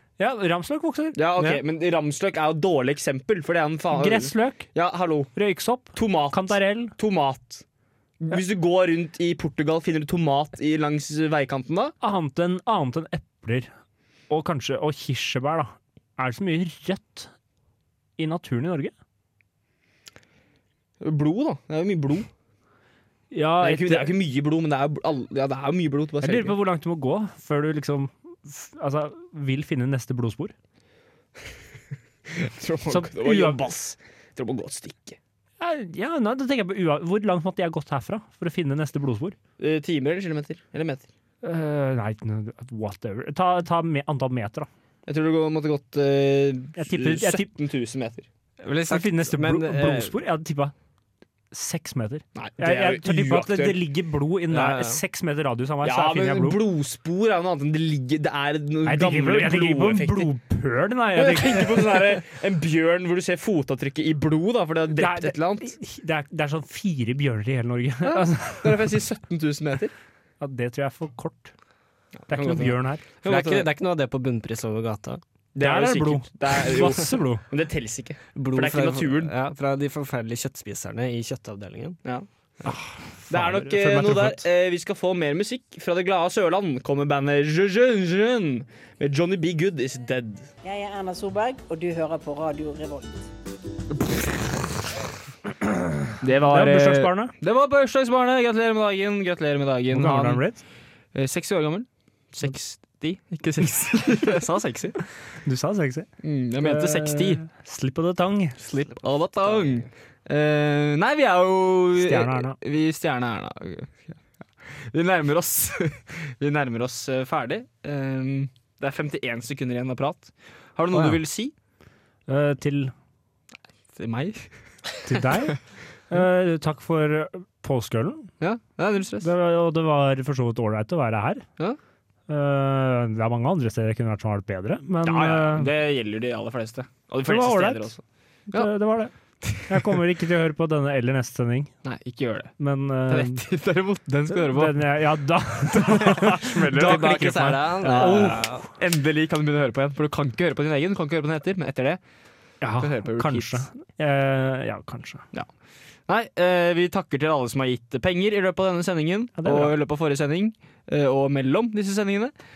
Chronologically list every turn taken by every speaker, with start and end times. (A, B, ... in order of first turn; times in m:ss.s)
0:00.2-0:01.6 A
0:01.2-0:05.3 B
0:03.9-0:04.7 A
0:05.3-0:06.9 A
0:05.9-0:07.6 B
0:08.2-0:11.9 B
0:12.0-0:13.7 A
0:14.3-0:17.3 A
0:18.2-0:18.9 A
0:21.0-0:22.3 B
0:23.3-0:24.2 A
0:23.6-0:26.6 B
0:26.2-0:30.5 A
0:32.3-0:35.2 B
0:32.9-0:33.7 A
0:35.6-0:39.4 A
0:39.6-0:41.1 B
0:41.4-0:44.7 A
0:45.0-0:48.2 B
0:46.8-0:47.5 A
0:48.6-0:50.1 C
0:48.9-0:50.7 A
0:51.5-0:56.6 A
0:52.3-0:53.8 B
0:54.5-0:55.0 C
0:55.8-1:00.3 B
0:58.8-1:02.2 A
1:01.1-1:05.7 B
1:04.9-1:08.8 A
1:08.0-1:09.9 B
1:10.4-1:11.5 A
1:12.2-1:13.7 B
1:12.3-1:13.0 A
1:13.2-1:15.2 C
1:15.5-1:19.3 B
1:15.6-1:17.4 A
1:18.4-1:22.0 C
1:22.0-1:22.8 B
1:22.6-1:24.4 A
1:23.3-1:30.5 B
1:30.6-1:33.3 D
1:34.0-1:34.6 B
1:35.6-1:37.3 A
1:36.2-1:40.4 B
1:39.9-1:40.6 A
1:41.1-1:45.0 B
1:45.4-1:46.1 A
1:46.2-1:47.4 B
1:46.6-1:48.6 A
1:48.6-2:01.5 B
1:52.0-1:52.6 A
2:00.9-2:01.2 A
2:02.3-2:02.9 A
2:03.9-2:04.5 B
2:05.0-2:08.3 A
2:08.4-2:09.3 B
2:09.2-2:11.4 A
2:12.3-2:15.7 A
2:15.0-2:18.7 B
2:17.2-2:17.9 A
2:18.5-2:21.7 A
2:19.4-2:19.9 B
2:21.8-2:22.5 B
2:22.6-2:23.4 A
2:23.0-2:25.0 B
2:24.3-2:28.7 A
2:25.6-2:32.0 B
2:26.6-2:28.6 C
2:32.6-2:35.2 A
2:32.8-2:33.7 B
2:36.1-2:42.3 B
2:39.4-2:39.8 A